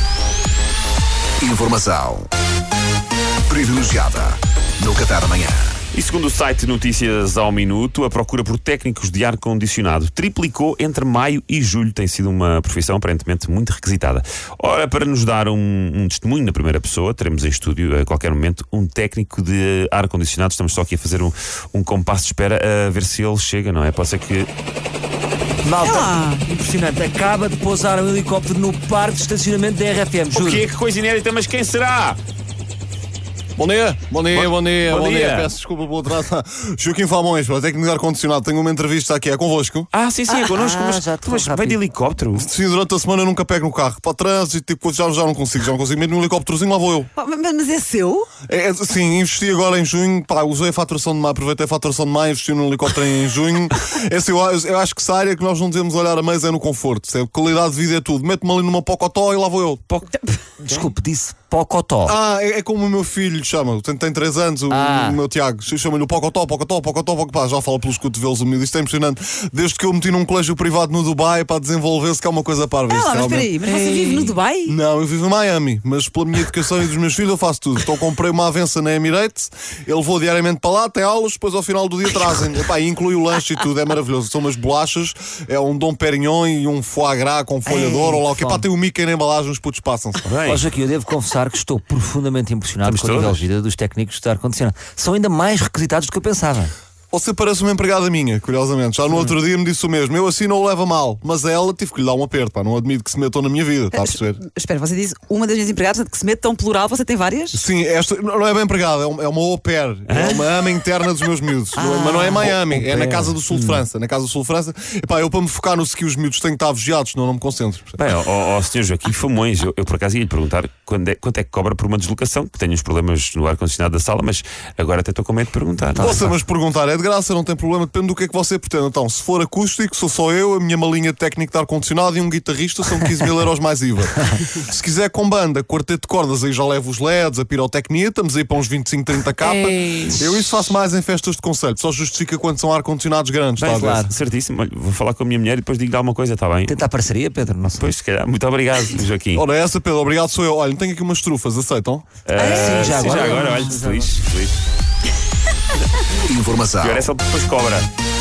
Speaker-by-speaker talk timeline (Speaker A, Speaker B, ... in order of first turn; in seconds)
Speaker A: 1.4-2.3, 3.5-5.8, 156.2-157.1
Speaker B: 5.9-24.5, 30.3-32.2, 34.3-35.5, 39.9-42.5, 59.9-60.9, 90.2-90.7, 92.8-93.5, 110.1-110.5, 118.0-126.3, 143.6-146.8, 147.7-149.5, 152.3-154.6, 156.8-157.9
Speaker C: 25.6-30.7, 40.5-41.8, 60.6-62.2, 64.7-65.2, 73.7-74.3, 87.7-88.7, 90.5-96.7, 112.4-113.8, 126.0-126.2, 143.7-144.1, 146.7-147.9, 152.4-154.2
Speaker D: 25.8-26.4, 47.2-48.3, 72.9-74.8, 103.9-107.6, 111.8-112.5, 152.4-153.7
Speaker E: 33.6-39.9, 42.4-47.1, 48.4-59.8, 62.1-73.5, 74.7-90.2, 97.1-104.4, 107.5-118.0, 126.0-144.1, 149.3-152.1